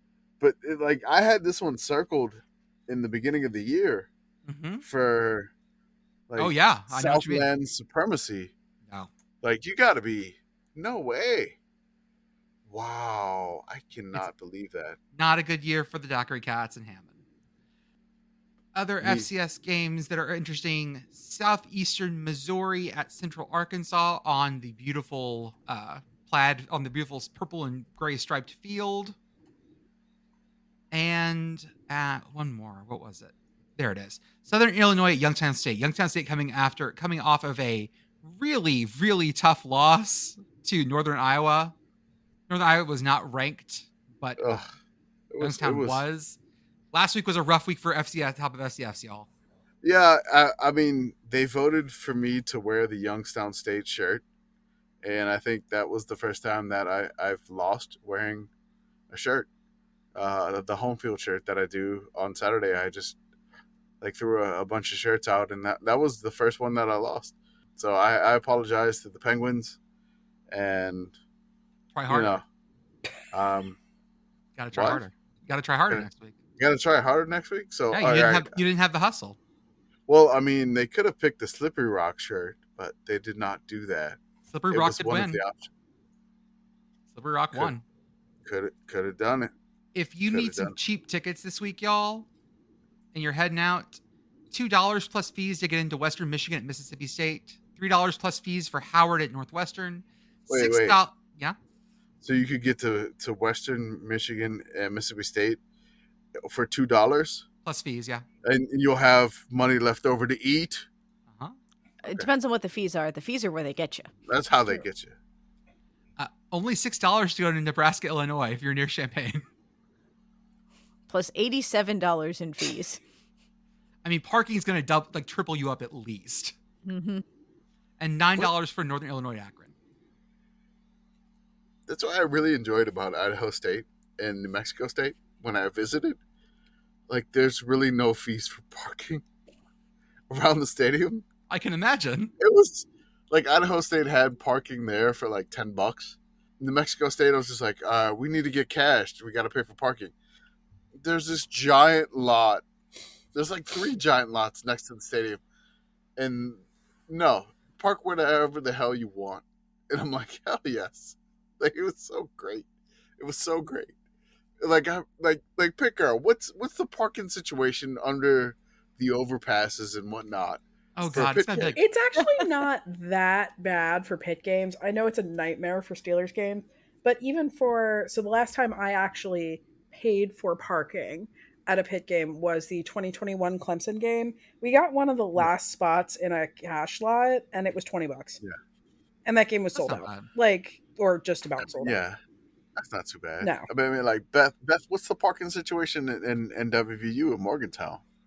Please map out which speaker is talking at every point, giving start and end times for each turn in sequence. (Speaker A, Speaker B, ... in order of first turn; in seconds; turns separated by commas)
Speaker A: 0.4-4.1, Speaker B: 4.5-4.8, Speaker A: 4.8-5.5, Speaker A: 6.3-8.5, Speaker B: 6.4-7.5, Speaker A: 9.4-11.6, Speaker A: 12.7-15.0, Speaker B: 15.2-17.1, Speaker B: 18.7-29.1, Speaker A: 19.0-19.3, Speaker B: 30.9-41.7, Speaker B: 42.5-44.6, Speaker A: 44.4-44.7, Speaker A: 45.3-46.0, Speaker B: 45.4-46.4, Speaker B: 46.9-49.3, Speaker A: 49.8-54.2, Speaker A: 55.0-58.5, Speaker A: 59.1-59.5, Speaker A: 60.1-63.2, Speaker A: 64.0-69.8, Speaker A: 70.5-71.2, Speaker B: 71.9-72.4, Speaker A: 72.1-72.4, Speaker A: 73.3-73.8, Speaker B: 74.6-76.3, Speaker A: 74.7-75.0, Speaker A: 75.9-78.6, Speaker B: 77.9-79.4, Speaker A: 80.1-84.2, Speaker B: 84.5-85.4, Speaker A: 84.7-85.7, Speaker B: 87.1-87.8, Speaker A: 88.4-89.5, Speaker B: 89.9-92.3, Speaker A: 90.3-90.7, Speaker B: 93.1-94.0, Speaker B: 94.5-101.6, Speaker A: 100.5-101.0, Speaker A: 102.2-105.6, Speaker A: 106.4-107.5, Speaker B: 107.7-108.2, Speaker A: 108.4-110.9, Speaker B: 111.3-111.6, Speaker C: 112.0-114.1, Speaker A: 114.3-115.2, Speaker B: 116.2-119.5, Speaker C: 121.1-123.0, Speaker B: 124.0-126.5, Speaker C: 126.8-127.2, Speaker B: 128.0-129.7, Speaker A: 131.9-136.2, Speaker A: 137.1-139.2, Speaker A: 140.3-141.2, Speaker B: 141.5-142.3, Speaker A: 142.4-150.1, Speaker A: 151.0-152.7, Speaker A: 153.3-155.4, Speaker A: 156.2-163.9, Speaker A: 164.6-171.8, Speaker B: 170.9-171.8, Speaker D: 171.7-188.4, Speaker D: 189.2-192.0, Speaker B: 189.7-190.3, Speaker A: 191.6-192.2, Speaker A: 192.8-198.0, Speaker D: 193.4-193.7